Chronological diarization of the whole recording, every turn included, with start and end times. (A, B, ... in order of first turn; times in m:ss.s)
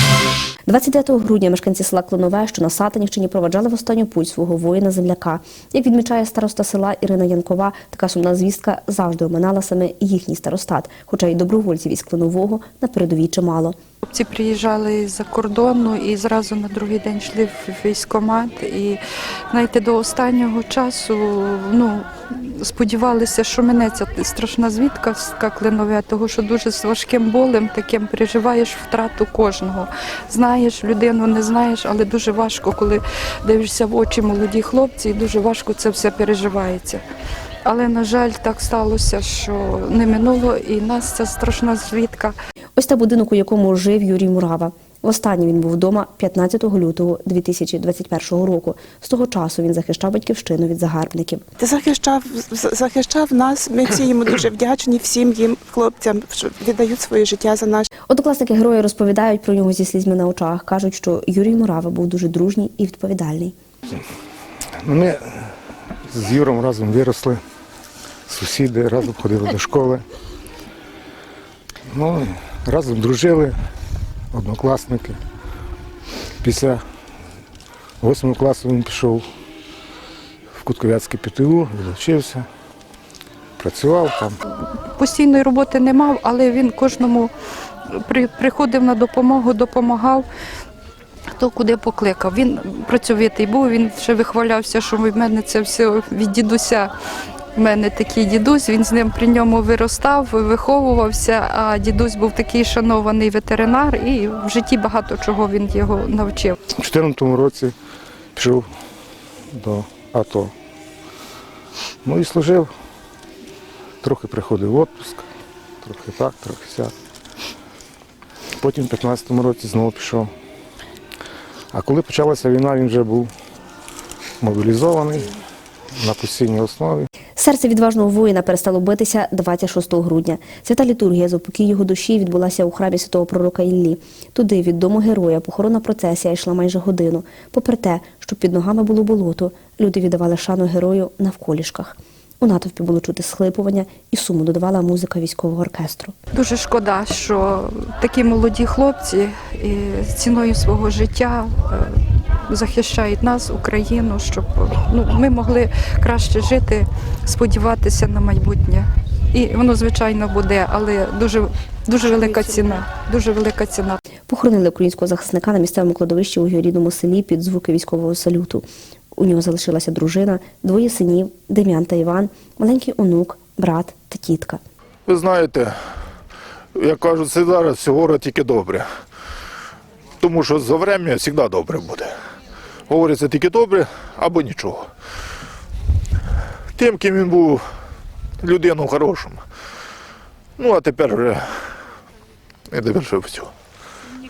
0:00.7-0:13.8 A
0:14.0-0:37.0 B
0:37.6-0:42.4 B
0:42.8-0:51.4 A
0:51.6-0:57.9 C
0:58.1-1:03.6 A
1:04.8-1:05.5 D
1:06.1-1:07.4 D
1:08.3-1:10.0 D
1:11.9-1:13.5 D
1:14.3-1:15.2 D
1:16.4-1:16.8 D
1:18.0-1:19.2 D
1:20.6-1:22.5 D
1:23.6-1:24.4 D
1:24.6-1:27.3 B
1:27.9-1:30.3 B
1:31.4-1:36.9 B
1:37.6-1:46.6 B
1:46.8-1:47.7 D
1:48.4-1:48.7 D
1:49.5-1:50.5 D
1:52.0-1:52.7 D
1:54.0-1:55.2 D
1:55.8-1:56.9 D
1:58.6-2:00.3 D
2:01.7-2:03.3 D
2:04.4-2:05.3 D
2:06.0-2:07.1 D
2:07.4-2:26.2 A
2:26.3-2:44.0 B
2:44.3-2:54.6 A
2:55.1-2:55.8 E
2:56.8-2:58.9 E
3:00.2-3:02.1 E
3:02.9-3:04.9 E
3:06.8-3:07.6 E
3:08.4-3:09.4 E
3:10.6-3:11.5 E
3:12.7-3:13.5 E